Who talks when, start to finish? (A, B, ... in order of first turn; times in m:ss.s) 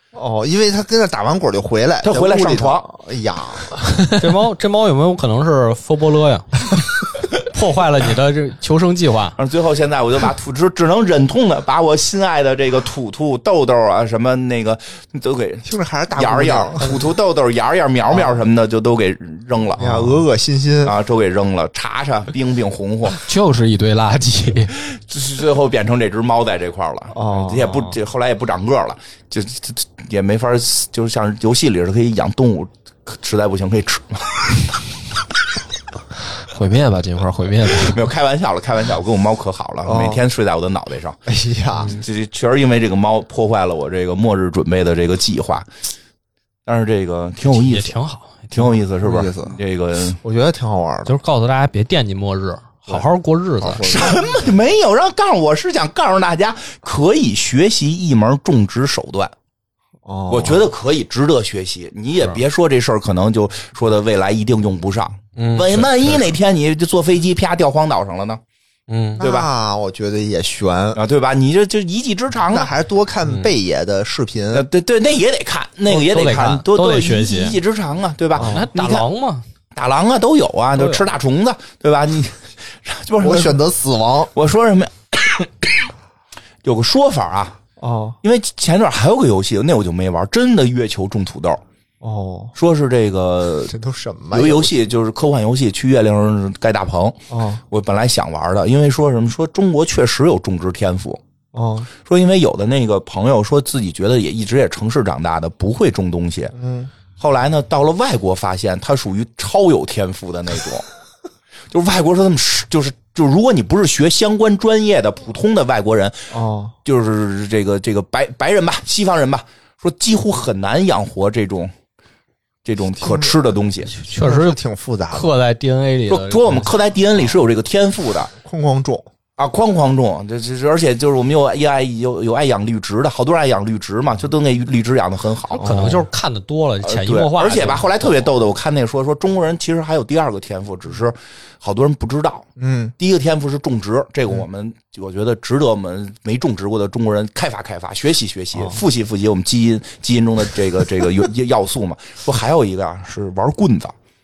0:00.1-0:03.8 A
0:02.0-0:02.9 B
0:04.2-0:09.4 C
0:09.4-0:20.2 B
0:15.6-0:17.0 A
0:18.1-0:18.4 A
0:19.8-0:21.0 A
0:20.8-0:23.2 B
0:23.1-0:24.8 D
0:24.8-0:34.6 B
0:27.1-0:27.9 A
0:36.5-0:38.0 D
0:37.7-0:41.2 B
0:39.8-0:40.2 A
0:41.3-0:42.0 A
0:41.8-0:45.7 B
0:46.6-0:47.9 B
0:47.5-0:48.6 C
0:48.5-0:50.2 B
0:49.0-0:49.6 A
0:50.2-0:51.1 A
0:51.0-0:54.1 C
0:53.6-0:54.5 A
0:53.8-0:59.3 B
1:00.0-1:00.6 A
1:00.3-1:08.4 B
1:05.4-1:06.2 D
1:08.9-1:09.2 D
1:09.2-1:09.5 B
1:09.2-1:11.0 A
1:10.9-1:12.7 B
1:12.5-1:14.6 A
1:14.5-1:19.1 B
1:15.9-1:17.6 C
1:18.4-1:18.7 A
1:18.4-1:19.4 C
1:19.7-1:23.6 B
1:20.8-1:21.0 C
1:23.2-1:24.3 A
1:24.3-1:25.9 B
1:26.6-1:27.6 B
1:27.8-1:28.2 A
1:28.2-1:31.6 B
1:32.0-1:32.5 A
1:32.6-1:33.7 B
1:33.7-1:34.7 A
1:34.3-1:37.2 B
1:37.3-1:37.6 A
1:37.7-1:41.2 B
1:41.5-1:41.9 A
1:42.0-1:46.5 B
1:46.5-1:46.9 A
1:47.2-1:50.8 B
1:51.7-1:56.2 B
1:56.3-1:56.7 A
1:56.8-2:01.7 B
2:02.6-2:03.9 B
2:03.0-2:03.4 A
2:04.0-2:05.3 A
2:04.1-2:04.6 C
2:05.1-2:06.7 C
2:06.1-2:08.3 B
2:08.4-2:09.1 A
2:09.4-2:15.7 B
2:15.5-2:18.3 C
2:15.6-2:16.1 A
2:16.8-2:22.5 B
2:22.6-2:22.9 A
2:23.0-2:34.0 B